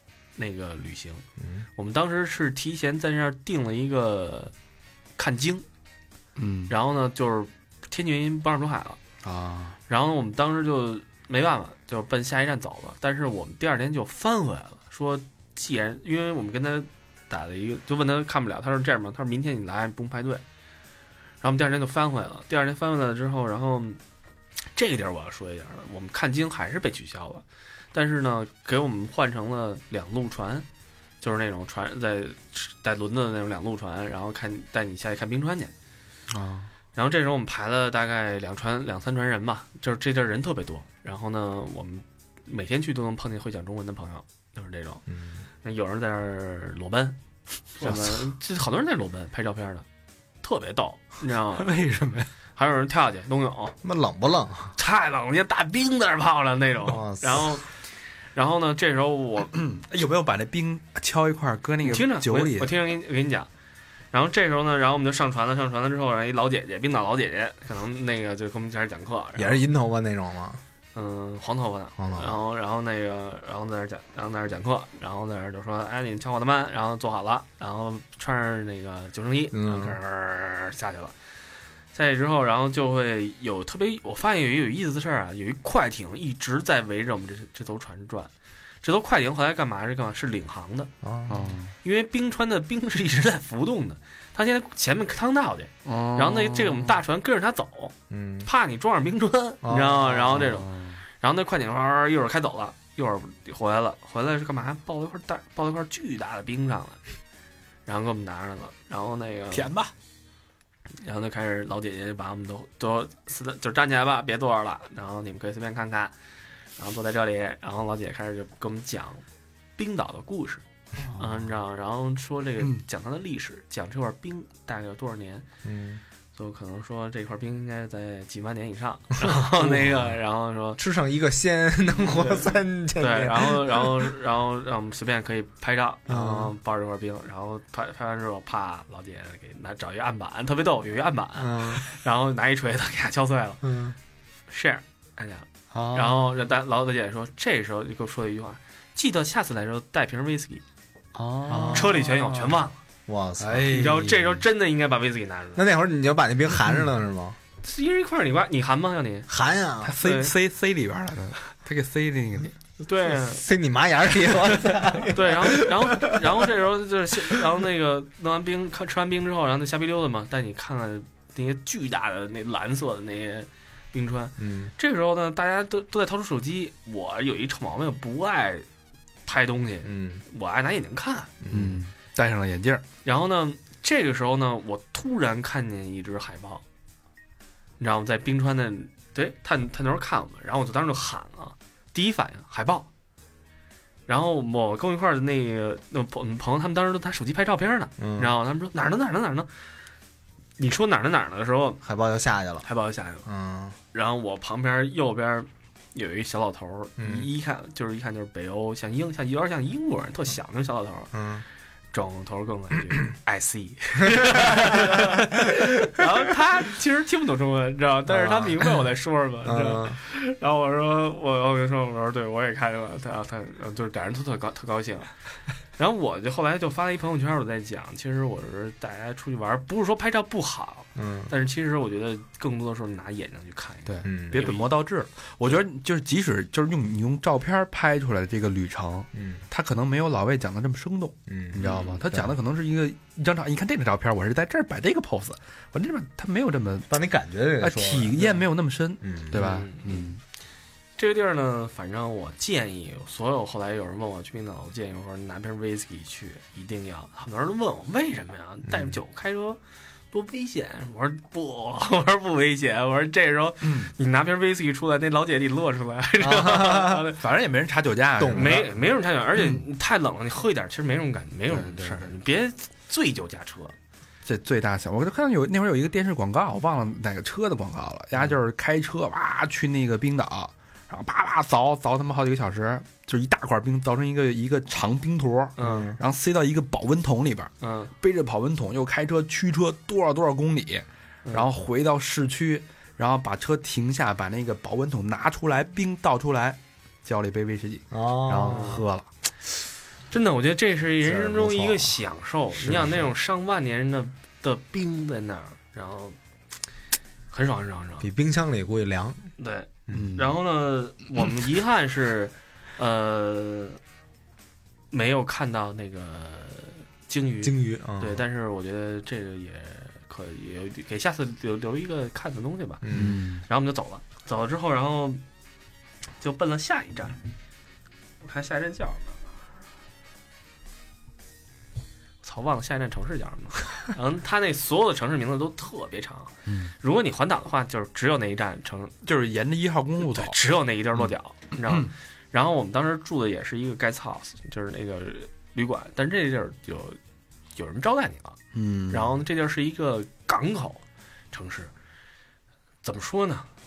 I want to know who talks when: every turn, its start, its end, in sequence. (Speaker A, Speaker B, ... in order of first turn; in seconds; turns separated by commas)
Speaker A: 0.3-1.2, Speaker B: 1.4-1.6, Speaker A: 1.8-4.5, Speaker A: 5.2-5.6, Speaker C: 6.3-6.7, Speaker A: 6.7-9.0, Speaker C: 9.2-9.8, Speaker A: 9.9-20.4, Speaker A: 21.4-24.0, Speaker A: 24.7-30.6, Speaker A: 31.2-35.7, Speaker C: 36.3-36.7, Speaker A: 36.9-45.0, Speaker B: 45.1-45.5, Speaker A: 45.6-47.2, Speaker A: 47.7-49.9, Speaker A: 50.4-51.7, Speaker C: 51.6-52.3, Speaker A: 52.5-53.8, Speaker B: 53.8-54.7, Speaker A: 54.8-57.7, Speaker B: 56.8-57.6, Speaker A: 58.3-59.5, Speaker C: 59.5-62.7, Speaker A: 61.8-63.5, Speaker A: 64.1-69.6, Speaker B: 69.3-70.6, Speaker A: 70.9-81.1, Speaker B: 72.0-72.4, Speaker B: 79.5-80.0, Speaker A: 81.9-88.3, Speaker A: 88.8-90.9, Speaker B: 91.0-91.5, Speaker C: 91.3-91.7, Speaker A: 91.8-97.9, Speaker C: 95.8-97.0, Speaker B: 98.1-98.5, Speaker A: 98.4-107.0, Speaker B: 99.6-100.5, Speaker C: 100.3-101.0, Speaker A: 107.8-109.7, Speaker C: 109.5-109.9, Speaker A: 111.0-116.1, Speaker A: 116.8-119.2, Speaker A: 119.8-120.6, Speaker C: 121.0-121.5, Speaker A: 121.2-125.5, Speaker B: 125.6-126.0, Speaker A: 126.3-130.8, Speaker B: 129.2-130.0, Speaker B: 130.8-134.1, Speaker A: 132.0-143.6, Speaker B: 136.1-136.5, Speaker B: 141.4-141.8, Speaker B: 143.6-143.9, Speaker A: 144.5-150.6, Speaker C: 145.7-146.2, Speaker C: 151.1-152.6, Speaker B: 151.4-152.1, Speaker A: 151.5-152.8, Speaker B: 153.1-154.1, Speaker C: 153.4-154.3, Speaker A: 153.7-155.7, Speaker B: 155.5-157.4, Speaker A: 157.6-159.3, Speaker B: 159.3-160.0, Speaker C: 159.8-162.5, Speaker A: 160.0-160.3, Speaker A: 162.8-163.4, Speaker B: 163.0-166.2, Speaker A: 165.0-178.7, Speaker B: 174.4-174.7, Speaker A: 179.2-181.3, Speaker B: 179.8-180.2, Speaker B: 181.4-181.8, Speaker C: 181.5-182.8, Speaker A: 183.0-186.6, Speaker A: 187.8-192.9, Speaker A: 194.1-199.5, Speaker B: 198.0-198.3, Speaker A: 200.6-201.8, Speaker B: 201.8-202.7, Speaker A: 202.6-203.3, Speaker B: 203.2-203.8, Speaker A: 203.9-211.1, Speaker B: 207.0-207.3, Speaker B: 211.1-211.4, Speaker A: 211.9-225.1, Speaker B: 214.2-215.2, Speaker B: 218.1-218.7, Speaker B: 219.4-220.0, Speaker A: 225.8-234.7, Speaker B: 230.9-231.3, Speaker C: 233.8-246.9, Speaker B: 234.0-234.5, Speaker B: 239.1-239.4, Speaker B: 241.3-242.4, Speaker A: 241.6-241.9, Speaker B: 246.9-248.5, Speaker C: 247.6-250.2, Speaker B: 249.0-249.5, Speaker A: 249.3-250.2, Speaker A: 251.0-259.6, Speaker B: 258.7-259.0, Speaker A: 260.1-267.2, Speaker C: 263.6-263.9, Speaker B: 266.2-267.0, Speaker C: 267.1-268.7, Speaker B: 268.2-268.7, Speaker A: 268.3-273.7, Speaker C: 269.4-269.6, Speaker C: 271.5-272.1, Speaker C: 274.2-299.0, Speaker A: 285.6-285.9, Speaker B: 285.6-286.0, Speaker A: 287.6-287.9, Speaker B: 297.9-299.0, Speaker A: 298.4-298.8, Speaker A: 300.1-306.2, Speaker B: 301.0-302.0, Speaker B: 302.6-303.1, Speaker A: 307.3-308.1, Speaker B: 308.0-309.3, Speaker A: 309.4-313.8, Speaker C: 309.9-310.4, Speaker A: 314.9-322.9, Speaker B: 317.4-318.2, Speaker B: 322.8-323.2, Speaker C: 322.9-323.4, Speaker A: 323.4-325.2, Speaker A: 326.2-327.2, Speaker A: 328.2-329.2, Speaker A: 332.2-338.9, Speaker C: 336.5-336.7, Speaker C: 339.0-340.4, Speaker A: 340.0-347.0, Speaker A: 347.6-351.7, Speaker C: 348.5-349.1, Speaker A: 352.8-353.5